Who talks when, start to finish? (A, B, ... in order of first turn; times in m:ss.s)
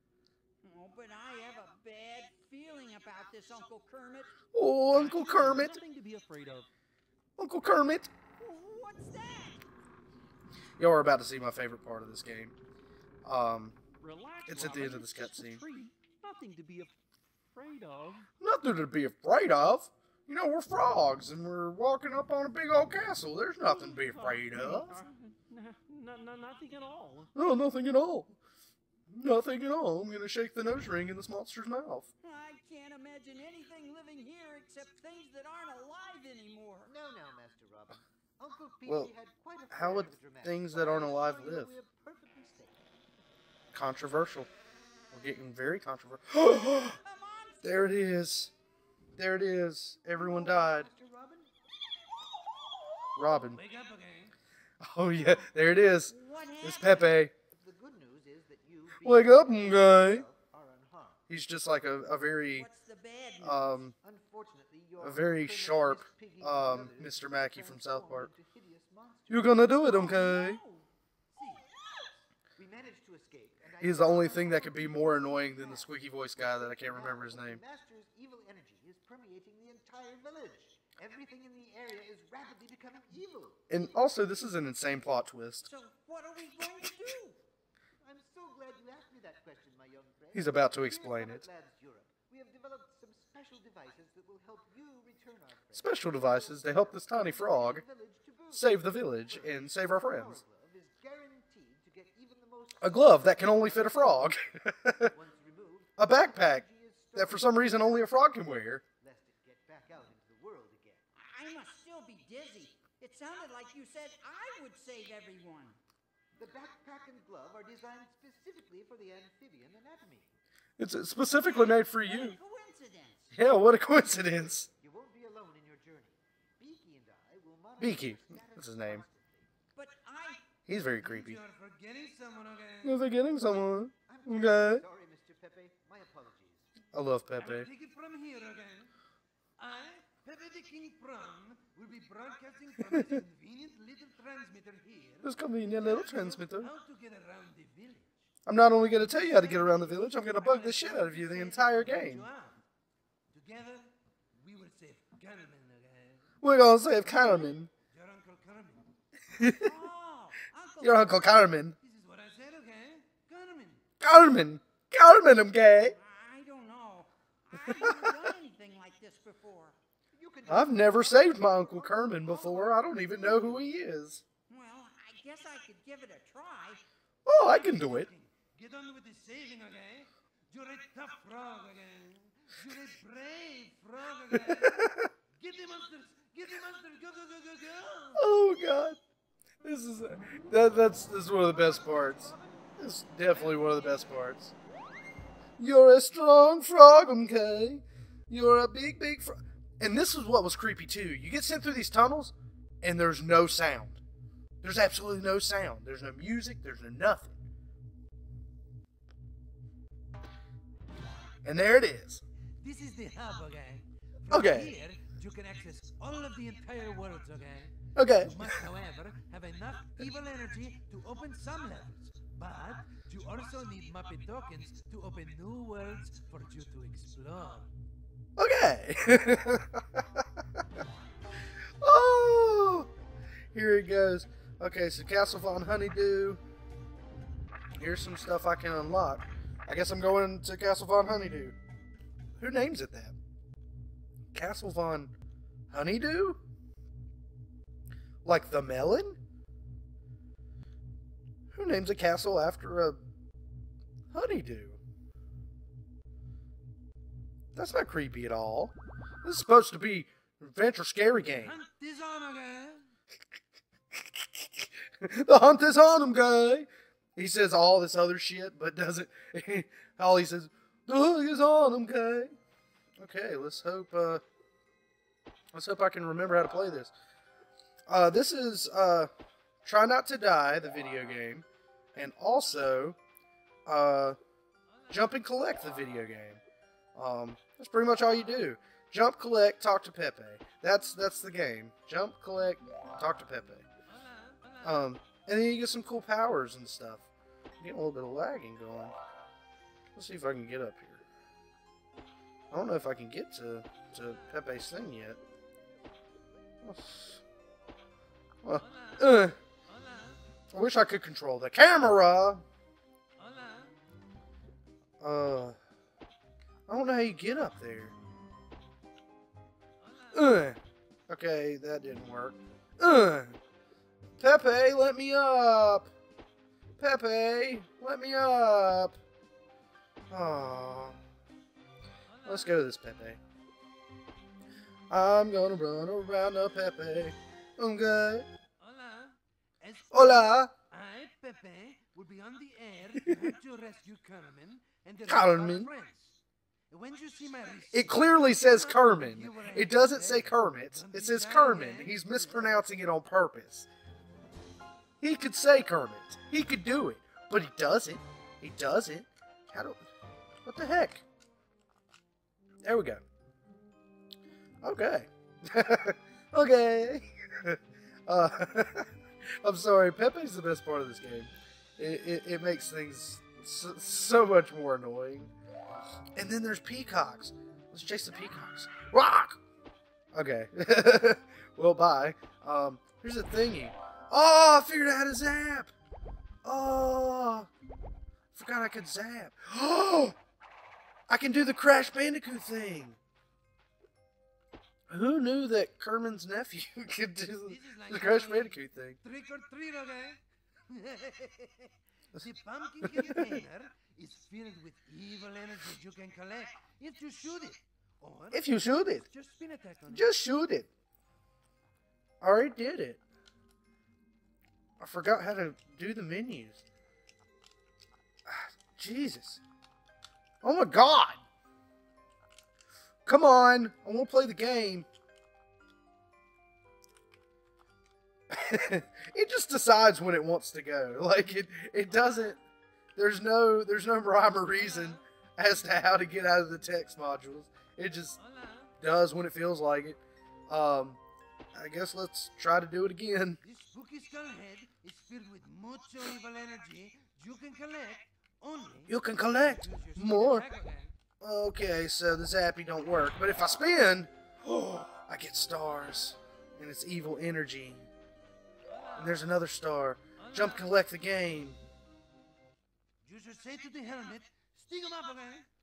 0:00.6-0:04.3 A
0:04.5-0:05.8 B
0:04.9-0:06.7 C
0:07.4-0:08.1 B
0:08.4-0:09.6 A
0:10.8-0:12.5 B
0:13.2-0:13.8 B
0:14.0-0:16.9 C
0:14.4-0:15.6 B
0:17.5-0:18.3 C
0:18.4-0:25.0 B
0:23.6-0:27.3 C
0:27.3-0:28.4 B
0:29.1-0:32.1 B
0:32.2-0:36.9 A
0:36.8-0:42.8 D
0:38.8-0:39.1 B
0:39.7-0:41.7 B
0:43.7-0:44.5 B
0:45.1-0:47.0 B
0:46.8-0:48.0 A
0:47.6-0:48.5 B
0:49.2-0:50.9 B
0:50.1-0:51.5 D
0:52.4-0:52.9 A
0:53.2-0:53.6 B
0:53.5-0:54.3 E
0:54.8-0:57.3 B
0:56.0-0:57.2 A
0:57.5-1:01.2 D
0:59.0-1:00.2 B
1:01.3-1:02.7 B
1:02.5-1:03.9 A
1:03.4-1:03.9 B
1:04.0-1:09.7 D
1:05.0-1:08.3 B
1:09.3-1:10.6 B
1:09.8-1:10.9 A
1:11.3-1:11.6 E
1:12.6-1:24.0 D
1:13.8-1:17.6 B
1:23.7-1:25.7 B
1:25.6-1:27.4 A
1:28.0-1:44.3 D
1:30.3-1:31.4 B
1:35.7-1:37.8 B
1:38.5-1:40.4 B
1:42.8-1:45.1 B
1:45.0-1:51.0 D
1:46.0-1:48.8 B
1:51.2-1:55.8 A
1:56.4-2:00.3 D
2:00.8-2:02.4 B
2:01.4-2:03.3 A
2:03.3-2:04.7 B
2:04.7-2:09.5 D
2:07.8-2:09.0 B
2:09.7-2:10.6 A
2:10.6-2:11.4 B
2:11.0-2:13.0 E
2:12.8-2:14.8 B
2:14.1-2:16.7 D
2:16.9-2:17.7 B
2:17.4-2:18.9 E
2:19.6-2:28.1 E
2:22.8-2:23.2 B
2:25.2-2:26.7 B
2:28.4-2:32.3 B
2:29.2-2:31.8 A
2:30.4-2:32.6 E
2:33.3-2:36.3 E
2:36.4-2:37.7 B
2:37.9-2:38.8 E
2:39.3-2:39.7 B
2:39.6-2:41.7 A
2:40.8-2:41.7 B
2:41.8-2:43.8 E
2:44.0-2:46.0 B
2:45.8-2:49.8 A
2:47.7-2:48.1 B
2:50.1-2:53.7 D
2:50.5-2:54.2 B
2:54.5-2:56.8 A
2:57.2-2:58.1 B
2:57.4-3:08.2 E
3:04.4-3:05.1 B
3:08.2-3:09.0 B
3:09.6-3:14.5 B
3:11.5-3:14.2 D
3:15.6-3:24.0 B
3:24.6-3:27.3 B
3:31.4-3:32.2 B
3:32.6-3:47.7 E
3:34.3-3:34.8 B
3:37.9-3:38.6 B
3:48.4-3:50.6 B
3:51.8-3:52.9 B
3:53.5-3:56.4 B
3:57.8-4:01.6 B
4:02.4-4:03.2 B
4:04.3-4:05.1 B
4:05.7-4:06.4 B
4:08.2-4:09.2 B
4:11.5-4:13.0 B
4:14.1-4:14.8 B
4:17.5-4:21.6 B
4:21.3-4:22.9 E
4:24.1-4:32.3 B
4:33.0-4:34.2 B
4:35.5-4:36.9 B
4:37.9-4:39.1 B
4:39.6-4:43.0 B
4:43.6-4:44.2 B
4:44.9-4:46.4 B
4:46.9-4:53.6 B
4:54.3-4:54.7 E
4:54.6-4:57.1 B
4:57.6-4:59.0 B
4:59.9-5:01.0 B
5:02.5-5:05.2 B
5:06.6-5:07.2 B
5:08.4-5:09.4 B
5:08.6-5:09.0 E
5:09.7-5:10.2 E
5:10.5-5:12.4 B
5:13.2-5:13.8 E
5:15.0-5:15.6 B
5:16.7-5:17.9 B
5:19.8-5:20.4 E
5:20.1-5:23.4 B
5:24.2-5:25.9 B
5:26.8-5:29.0 B
5:30.1-5:31.0 B
5:32.1-5:32.5 E
5:32.2-5:33.2 B
5:34.9-5:38.3 B
5:38.6-5:46.2 E
5:39.9-5:40.5 B
5:45.0-5:45.7 B
5:46.7-5:52.6 E
5:47.7-5:53.7 B
5:55.0-5:59.8 B
6:00.4-6:01.0 B
6:02.6-6:03.0 B
6:04.6-6:08.9 B
6:09.4-6:15.3 B
6:16.2-6:19.4 B
6:20.1-6:25.7 B
6:26.4-6:27.5 B
6:28.3-6:30.2 B
6:31.1-6:33.0 B
6:34.9-6:39.0 B
6:37.4-6:50.1 E
6:42.8-6:43.4 B
6:48.3-6:49.0 B
6:49.9-6:50.7 B
6:52.2-6:53.0 B
6:54.8-6:56.6 B
6:58.3-6:59.4 B
7:00.4-7:01.2 B
7:03.0-7:04.9 B
7:08.3-7:12.4 B
7:12.9-7:18.2 B
7:14.5-7:15.0 E
7:18.2-7:18.7 E
7:18.8-7:21.0 B
7:21.5-7:23.4 B
7:23.4-7:30.9 E
7:28.9-7:30.5 B
7:31.2-7:37.9 B
7:39.0-7:41.6 B
7:40.2-7:40.7 E
7:43.0-7:45.5 E